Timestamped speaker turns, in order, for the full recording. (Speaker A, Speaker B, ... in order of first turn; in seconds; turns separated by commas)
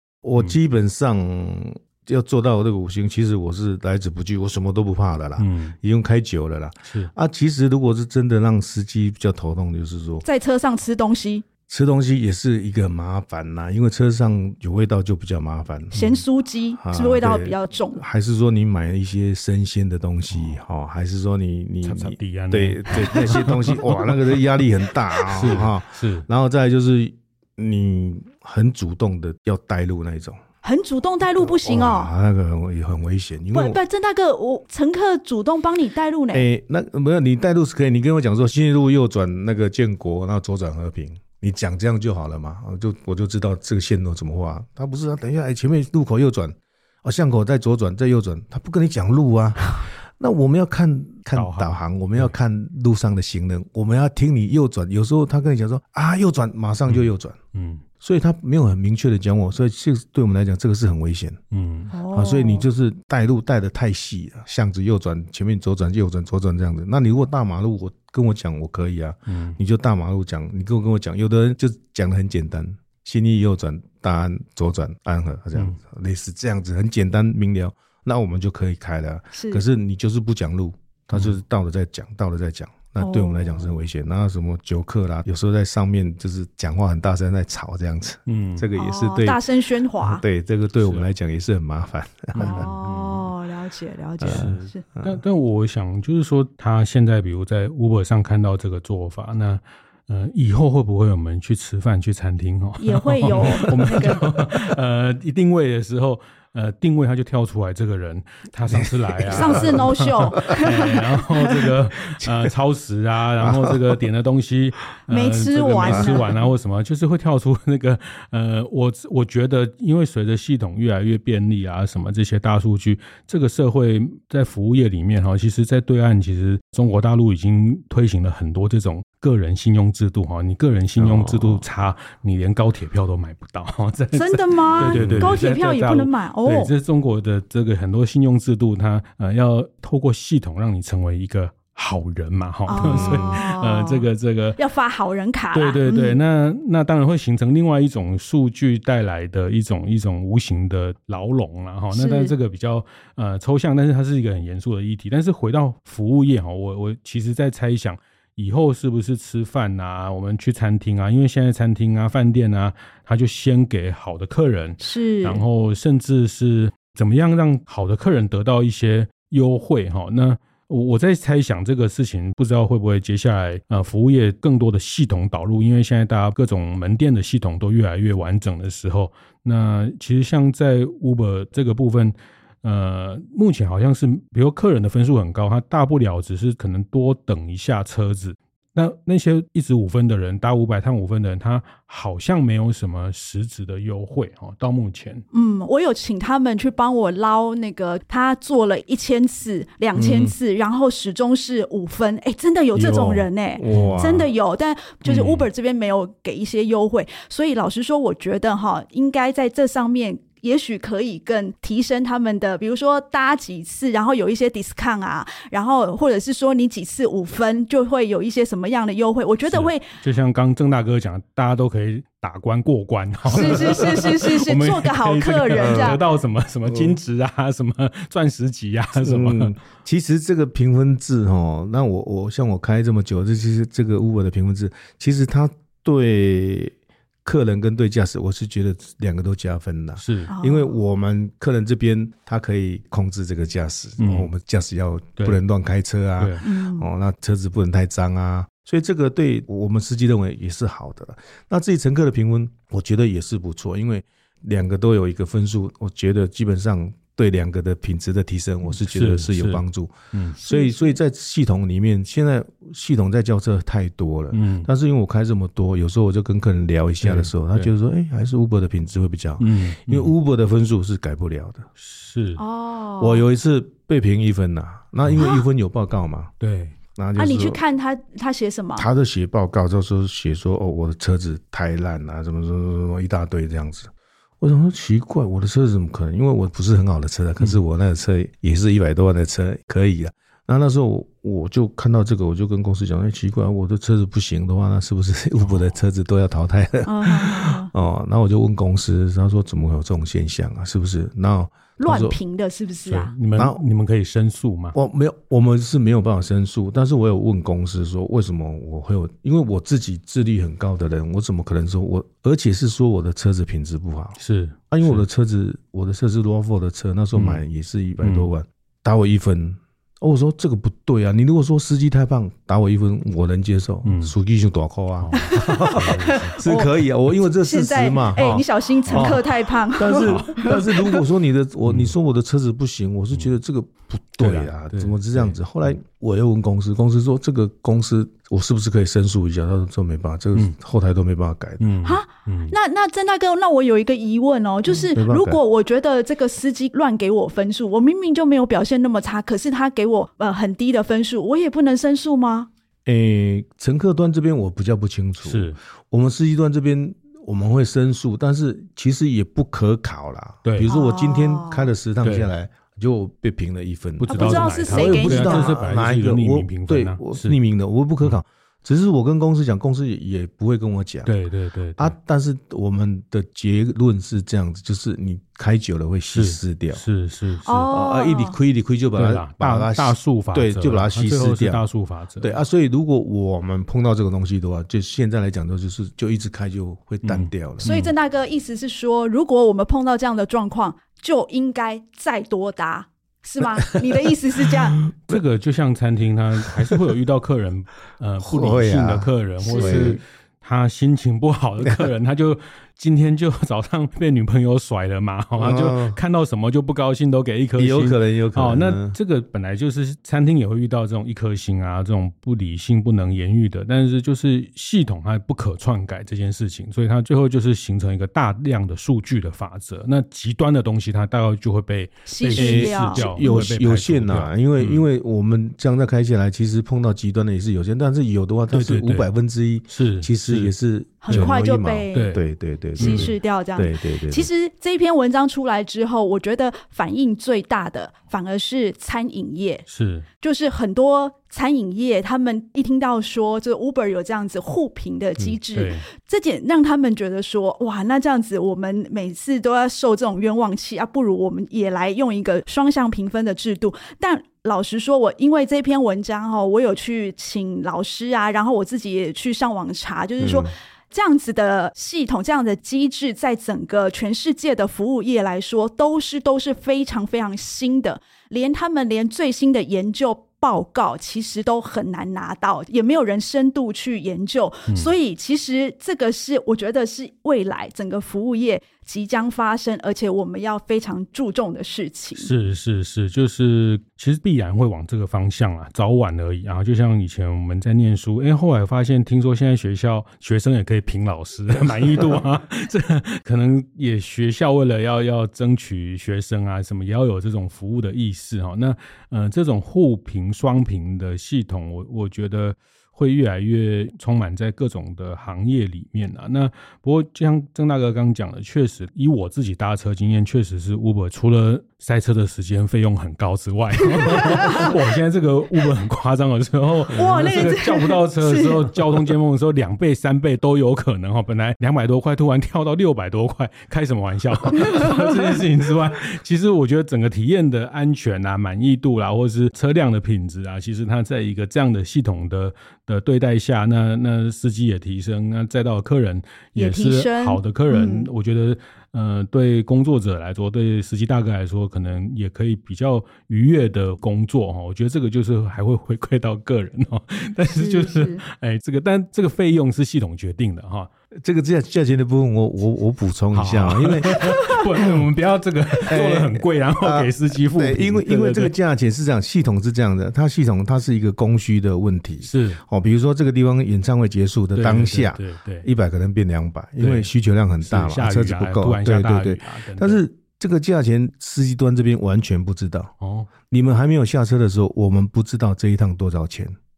Speaker A: 0.2-10.2, Speaker B: 5.4-5.8, Speaker B: 6.8-7.1, Speaker C: 10.2-11.4, Speaker A: 11.7-16.1, Speaker C: 15.9-18.0, Speaker A: 16.8-30.4, Speaker B: 20.3-20.6, Speaker B: 21.8-24.4, Speaker B: 25.2-26.3, Speaker C: 30.6-32.1, Speaker A: 31.4-33.8, Speaker C: 33.5-36.5, Speaker A: 36.3-57.4, Speaker B: 51.3-52.3, Speaker B: 56.9-57.8, Speaker A: 58.0-61.4, Speaker B: 61.5-61.9, Speaker C: 61.9-62.7, Speaker A: 62.1-89.4, Speaker B: 69.3-69.6, Speaker C: 79.3-79.6, Speaker C: 83.0-83.7, Speaker B: 88.3-88.7, Speaker C: 88.7-90.2, Speaker A: 90.0-92.7, Speaker B: 90.8-91.1, Speaker C: 92.3-94.8, Speaker B: 92.4-93.3, Speaker A: 94.2-95.2, Speaker B: 94.2-144.6, Speaker C: 102.8-104.2, Speaker A: 103.3-104.2, Speaker A: 108.7-110.0, Speaker C: 109.3-111.6, Speaker A: 112.2-112.5, Speaker A: 113.4-114.0, Speaker C: 115.1-116.3, Speaker A: 115.8-116.3, Speaker A: 131.0-131.7, Speaker C: 134.1-136.7, Speaker A: 134.8-135.4, Speaker C: 142.7-146.2, Speaker A: 142.8-143.3, Speaker B: 145.5-195.2, Speaker C: 151.9-152.3, Speaker C: 164.8-165.4, Speaker C: 195.3-219.8, Speaker A: 199.9-200.3, Speaker A: 202.7-204.3, Speaker B: 203.7-204.0, Speaker B: 205.0-205.5, Speaker B: 219.5-229.5, Speaker C: 223.3-226.0, Speaker A: 225.6-226.0, Speaker A: 226.7-227.0, Speaker A: 228.9-271.7, Speaker B: 240.0-240.3, Speaker C: 240.3-240.7, Speaker B: 244.0-244.3, Speaker B: 246.2-246.4, Speaker C: 246.4-246.9, Speaker B: 258.8-260.4, Speaker C: 260.4-260.9, Speaker B: 264.3-264.7, Speaker B: 267.0-267.7, Speaker B: 269.4-270.1, Speaker B: 271.8-272.4, Speaker C: 272.4-273.2, Speaker A: 273.0-276.3, Speaker B: 275.0-275.3, Speaker B: 276.4-276.8, Speaker A: 277.0-277.6, Speaker C: 277.1-278.9, Speaker A: 278.8-302.2, Speaker C: 296.9-297.7, Speaker C: 301.8-303.1, Speaker B: 302.9-304.8, Speaker A: 304.7-314.2, Speaker B: 314.2-315.0, Speaker A: 314.7-341.6, Speaker B: 317.1-317.4, Speaker B: 318.0-318.3, Speaker B: 323.8-324.1, Speaker B: 325.0-326.4, Speaker C: 325.1-326.7, Speaker C: 327.4-331.0, Speaker B: 328.9-329.2, Speaker B: 329.9-330.5, Speaker B: 331.7-331.9, Speaker B: 334.2-335.4, Speaker B: 341.6-342.5, Speaker C: 341.8-352.5, Speaker A: 344.7-345.4, Speaker A: 352.9-371.1, Speaker B: 355.2-355.6, Speaker B: 360.4-360.7, Speaker C: 360.6-361.7, Speaker B: 362.0-362.3, Speaker B: 364.0-367.4, Speaker C: 364.1-365.7, Speaker B: 371.1-371.9, Speaker A: 371.8-376.8, Speaker B: 376.1-377.7, Speaker C: 377.4-378.4, Speaker A: 377.7-381.6, Speaker B: 378.9-382.4, Speaker A: 382.2-387.7, Speaker B: 387.0-387.9, Speaker C: 387.6-394.8, Speaker A: 394.5-395.2, Speaker B: 394.9-424.9, Speaker A: 396.4-396.8, Speaker A: 398.2-400.0, Speaker C: 399.4-400.0, Speaker A: 401.6-401.9, Speaker A: 405.4-406.0, Speaker A: 407.6-409.0, Speaker C: 422.1-423.5, Speaker A: 422.3-434.3, Speaker B: 428.5-429.1, Speaker B: 429.7-430.5, Speaker C: 431.0-432.2, Speaker B: 431.9-432.2, Speaker C: 432.8-439.6, Speaker B: 432.8-433.1, Speaker B: 439.7-440.1, Speaker C: 440.2-482.3, Speaker B: 445.5-445.9, Speaker A: 460.2-460.5, Speaker B: 474.7-474.9, Speaker B: 482.2-550.9, Speaker C: 513.9-514.7, Speaker C: 516.9-519.0, Speaker C: 524.5-525.1, Speaker C: 536.5-538.1, Speaker C: 547.5-548.2, Speaker A: 551.2-555.0, Speaker B: 553.3-558.5, Speaker A: 555.9-572.9, Speaker B: 562.2-562.6, Speaker B: 564.5-565.7, Speaker B: 566.8-567.1, Speaker B: 567.6-570.0, Speaker B: 573.0-573.3, Speaker A: 573.5-576.6